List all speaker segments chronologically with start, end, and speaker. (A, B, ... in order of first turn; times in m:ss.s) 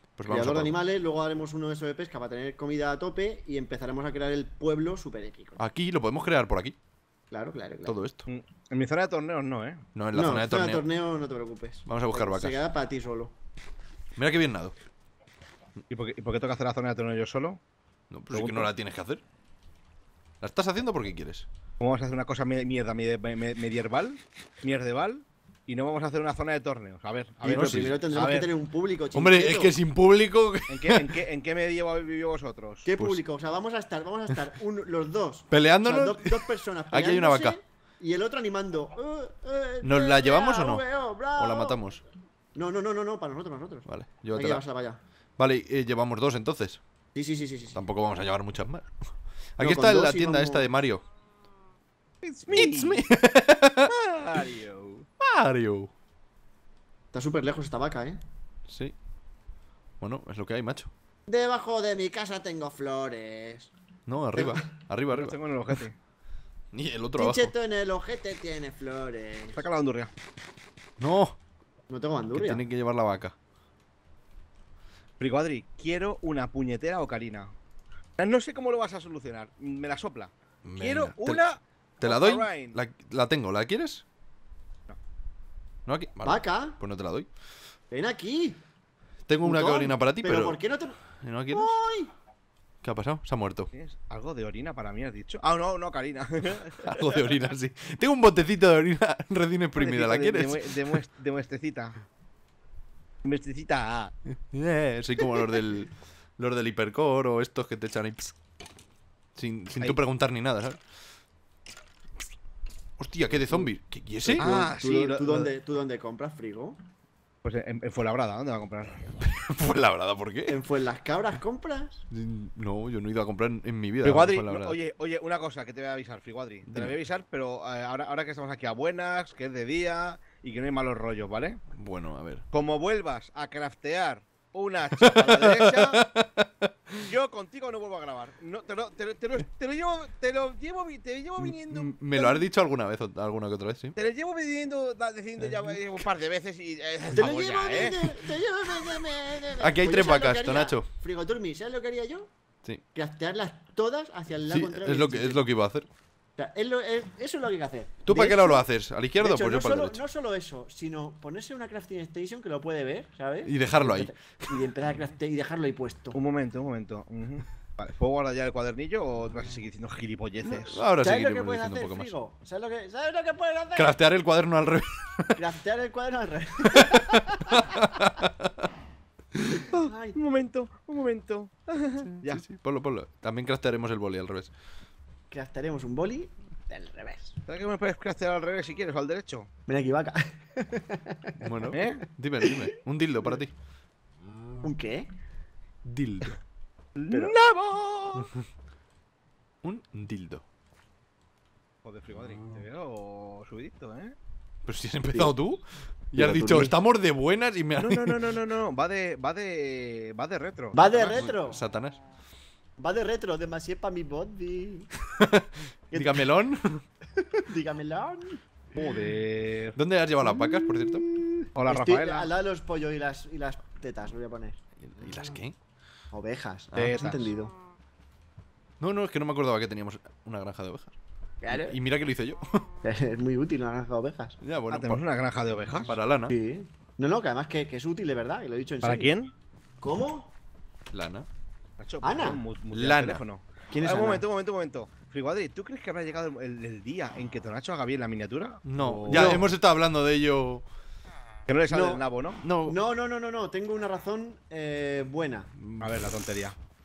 0:00.2-0:00.7 A
0:00.3-0:05.6 B
0:05.6-0:06.8 A
0:07.3-0:07.9 B
0:07.8-0:08.2 A
0:08.2-0:09.8 C
0:09.9-0:10.8 A
0:10.1-0:13.3 B
0:11.9-0:12.6 A
0:14.2-0:14.7 A
0:15.9-0:17.6 C
0:18.1-0:19.2 A
0:18.3-0:18.7 C
0:20.4-0:21.4 A
0:21.8-0:28.5 C
0:27.4-0:29.7 B
0:27.4-0:28.0 A
0:29.1-0:31.2 A
0:30.7-0:32.9 C
0:32.8-0:42.0 B
0:33.0-0:33.2 A
0:35.5-0:37.6 A
0:39.8-0:42.0 A
0:42.5-0:45.0 B
0:43.9-0:44.6 A
0:45.4-0:46.8 A
0:47.1-0:47.8 B
0:47.7-0:48.9 A
0:49.6-0:51.0 A
0:49.6-0:50.6 B
0:52.2-0:53.0 C
0:52.5-0:53.9 A
0:53.9-0:55.1 C
0:55.2-0:55.9 A
0:57.1-0:58.2 B
0:58.7-0:58.9 A
1:00.0-1:00.9 A
1:01.3-1:03.7 B
1:04.1-1:05.8 A
1:04.4-1:04.6 B
1:05.1-1:05.9 C
1:06.7-1:07.5 A
1:07.2-1:09.6 B
1:09.5-1:10.1 C
1:11.0-1:11.4 A
1:11.9-1:12.6 B
1:12.3-1:13.3 A
1:15.2-1:17.5 C
1:18.2-1:22.8 C
1:20.6-1:21.4 A
1:22.0-1:24.0 A
1:25.8-1:27.3 A
1:26.2-1:26.8 B
1:27.9-1:28.6 B
1:29.3-1:30.6 A
1:29.4-1:32.1 B
1:31.1-1:31.8 A
1:32.8-1:33.7 A
1:33.7-1:37.3 C
1:36.8-1:40.9 A
1:39.8-1:42.0 C
1:43.2-1:44.1 C
1:44.3-1:48.3 A
1:49.3-1:50.8 A
1:53.0-1:54.5 A
1:54.3-1:55.5 C
1:54.3-1:56.8 B
1:57.4-1:59.1 C
1:59.2-2:00.6 A
2:00.5-2:02.0 B
2:02.1-2:04.8 A
2:04.0-2:11.6 C
2:11.7-2:12.4 A
2:12.5-2:16.0 C
2:15.0-2:17.0 A
2:17.0-2:22.4 C
2:21.4-2:23.9 A
2:24.0-2:28.0 C
2:25.4-2:25.8 A
2:27.2-2:32.3 B
2:29.6-2:30.8 A
2:32.9-2:35.4 B
2:34.5-2:35.9 A
2:36.4-2:38.6 B
2:38.0-2:40.0 A
2:39.2-2:46.2 B
2:43.4-2:44.1 A
2:46.1-2:50.8 C
2:50.4-2:52.1 A
2:51.0-2:54.0 B
2:53.7-2:55.4 A
2:55.4-2:57.7 B
2:56.6-2:58.7 A
2:59.3-2:59.6 A
2:59.6-3:00.2 B
2:59.7-3:02.4 C
3:02.1-3:04.5 A
3:05.3-3:07.4 B
3:07.4-3:09.5 C
3:09.7-3:11.4 B
3:11.4-3:13.5 A
3:11.7-3:12.0 C
3:12.4-3:12.7 B
3:14.6-3:15.1 B
3:15.8-3:16.4 A
3:17.0-3:18.3 C
3:19.6-3:20.4 A
3:21.8-3:24.2 C
3:24.6-3:28.2 A
3:26.2-3:26.7 B
3:27.8-3:31.3 C
3:30.7-3:31.6 B
3:31.1-3:32.0 A
3:32.8-3:34.9 B
3:35.0-3:36.8 A
3:35.9-3:36.2 B
3:37.2-3:38.4 B
3:38.8-3:39.8 C
3:39.8-3:41.2 A
3:40.2-3:44.6 B
3:41.5-3:42.3 C
3:44.8-3:45.5 A
3:46.1-3:47.5 B
3:46.7-3:47.0 A
3:46.8-3:47.3 C
3:48.8-3:51.0 A
3:51.4-3:51.8 B
3:51.5-3:52.6 A
3:52.8-3:54.4 B
3:54.4-3:55.0 A
3:54.7-3:55.9 C
3:55.8-3:56.3 A
3:56.3-3:59.1 B
3:58.8-3:59.3 C
3:59.8-4:00.3 B
4:00.9-4:01.3 A
4:01.8-4:09.4 C
4:02.0-4:02.4 B
4:02.7-4:03.2 A
4:03.7-4:04.2 B
4:08.6-4:10.6 A
4:09.0-4:09.5 B
4:11.5-4:12.4 C
4:11.7-4:12.0 B
4:12.4-4:12.8 A
4:12.6-4:15.5 B
4:15.6-4:15.9 A
4:15.8-4:16.6 C